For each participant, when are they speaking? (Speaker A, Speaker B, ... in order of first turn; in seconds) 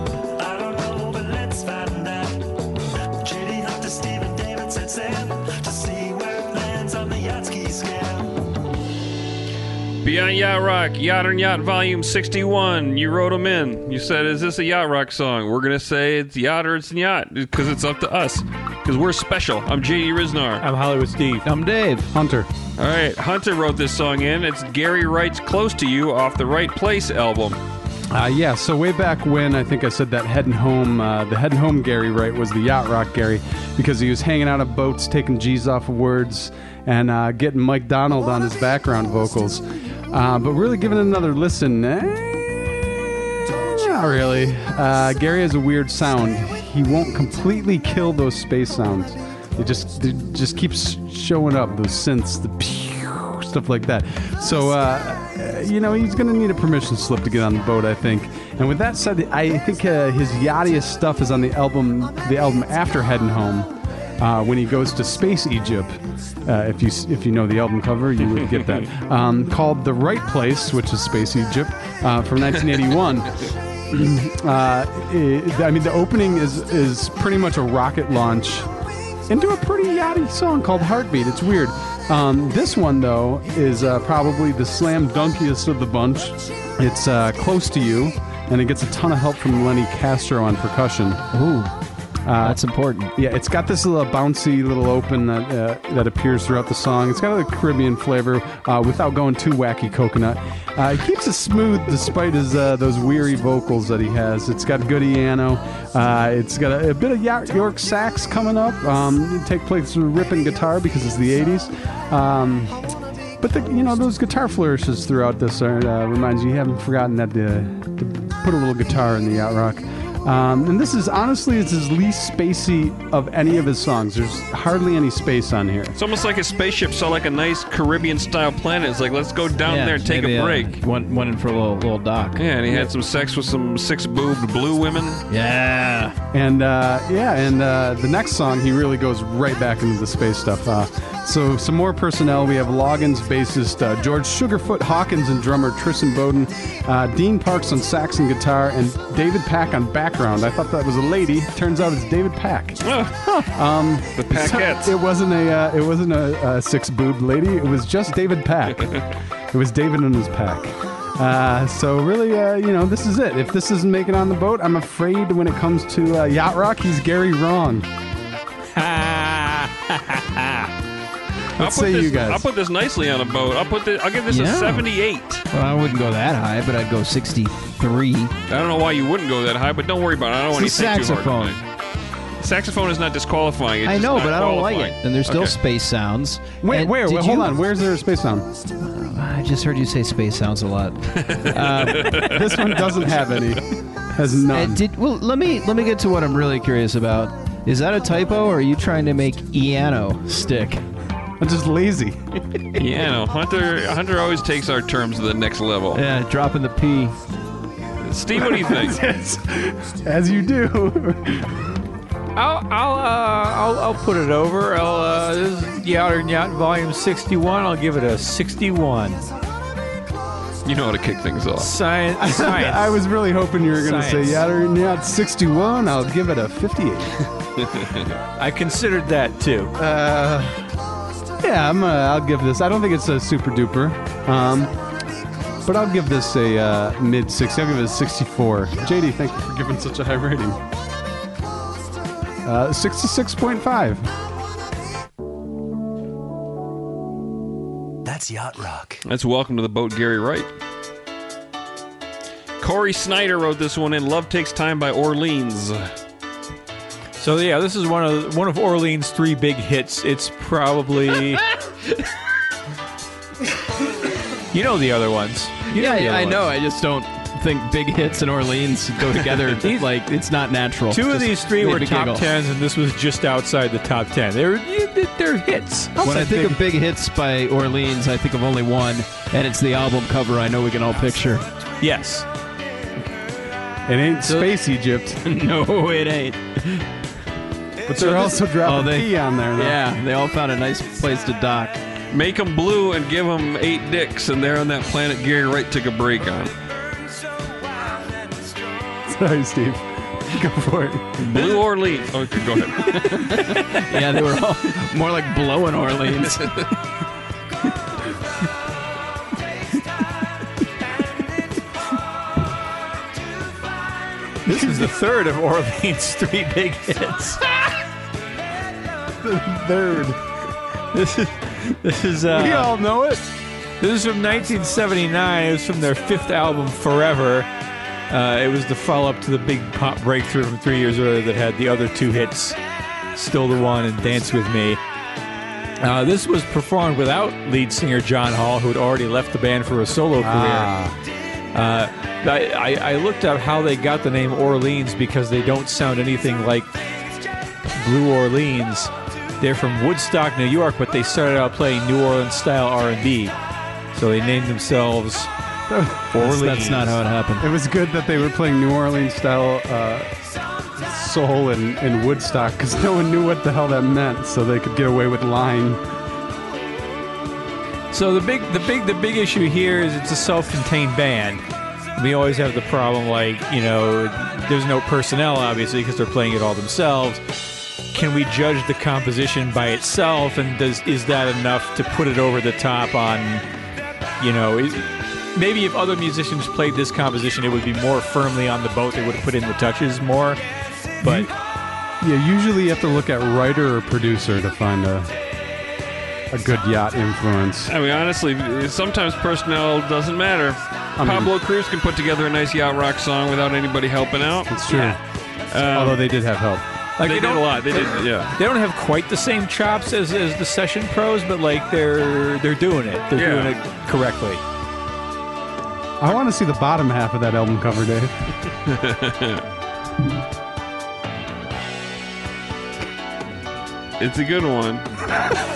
Speaker A: 0.3-2.5, 3.2-8.4, 248.0-249.0
Speaker B: 10.0-20.6, 22.8-27.6, 126.0-130.8, 132.4-135.2, 152.8-153.3, 154.1-155.0, 171.6-175.4, 178.5-181.6, 182.4-185.5, 191.1-193.3, 202.7-206.0, 208.0-209.0, 220.6-221.7, 227.6-228.2, 249.0-250.5, 252.6-255.9, 292.1-296.5, 301.2-303.3, 397.7-404.9, 405.5-406.0, 407.0-408.3, 413.1-413.5, 418.6-419.4, 424.0-425.1
Speaker C: 20.6-21.4, 168.7-170.7, 212.3-219.2, 221.6-222.9, 223.8-224.4, 228.4-229.8, 257.2-261.4, 264.5-266.4, 269.6-269.9, 270.9-275.9, 281.8-282.2, 287.9-288.4, 314.4-317.4, 320.9-322.8, 323.8-327.5, 328.1-332.6, 333.1-334.8, 335.8-340.7, 341.5-346.7, 347.7-353.3, 353.9-355.3, 356.1-357.0, 367.9-371.4, 371.9-377.2, 377.9-383.4, 384.2-390.4, 391.0-391.3, 407.0-414.4
Speaker D: 21.4-22.1, 91.3-91.7, 92.4-93.1, 129.6-132.4, 135.3-136.2, 174.3-174.9, 175.5-178.3, 180.5-181.6, 183.8-187.6, 188.8-192.4, 194.5-200.8, 205.9-207.2, 265.7-272.3, 276.0-281.4, 285.2-286.9, 288.6-291.8, 302.8-306.7, 356.1-357.5
Speaker E: 22.1-22.5, 28.1-42.9, 43.5-78.7, 79.3-91.2, 92.2-92.6, 93.1-112.8, 113.4-126.0, 136.3-167.9, 171.6-172.4, 186.6-188.5, 192.1-194.8, 201.4-202.4, 208.3-211.6, 222.2-227.3, 229.8-230.7, 231.4-234.7, 235.6-240.6, 242.4-244.1, 275.9-276.6, 283.9-285.2, 287.9-289.8, 299.1-301.1, 319.2-320.2, 322.3-323.2, 340.2-341.0, 355.7-356.1, 357.4-360.1, 360.8-365.8, 391.0-391.3, 392.0-395.1, 396.3-397.7, 401.0-401.3, 404.5-405.0, 405.7-406.6, 416.0-418.1